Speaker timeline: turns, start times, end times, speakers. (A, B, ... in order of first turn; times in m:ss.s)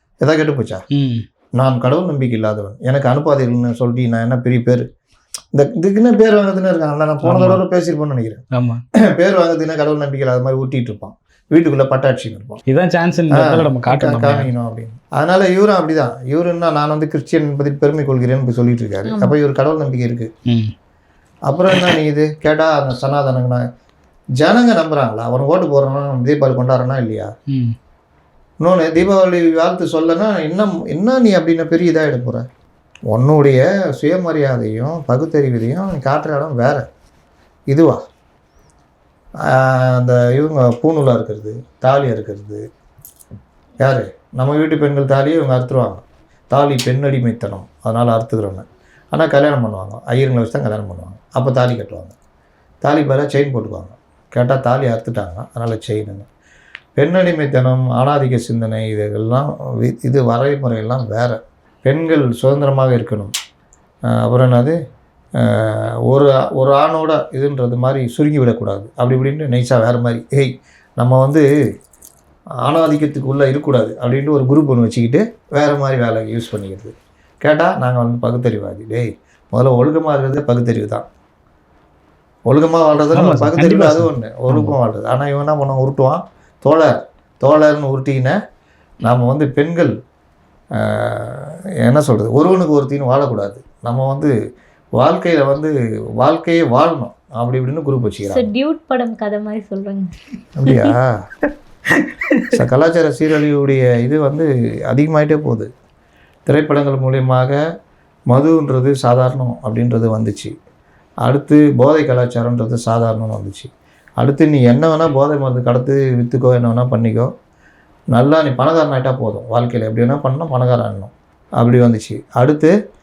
0:00.2-0:00.8 A
0:00.9-0:01.2 B
0:01.6-0:04.9 A
0:05.5-0:08.4 A
0:07.2-0:07.6 B
0:08.5-0:08.8 B
0:09.0-0:12.6 A
0:12.7-0:14.5 B
0:13.3-0:20.3 A
0:19.1-0:19.4 C
0:20.5-0:20.7 B
0:21.5-0:23.7 A
0:24.4-0:27.3 A
0:27.5-0:27.8 B
0:28.6-0:32.5 A
0:33.1-0:36.9 A
0:37.7-0:38.0 A
0:39.4-0:42.7 A
0:43.8-0:52.2 A
0:52.8-0:56.3 A
0:57.0-1:03.3 A
1:04.1-1:04.8 A
1:05.4-1:11.5 A
1:12.6-1:21.1 A
1:22.5-1:28.4 A
1:23.1-1:24.8 B
1:29.0-1:29.9 A
1:30.7-1:34.3 A
1:35.0-1:38.5 A
1:38.3-1:40.1 C
1:40.6-1:41.2 A
1:42.0-1:42.6 B
1:42.5-1:45.7 A
1:46.5-1:47.6 A
1:48.3-1:50.5 A
1:51.2-1:57.3 A
1:58.1-2:02.7 A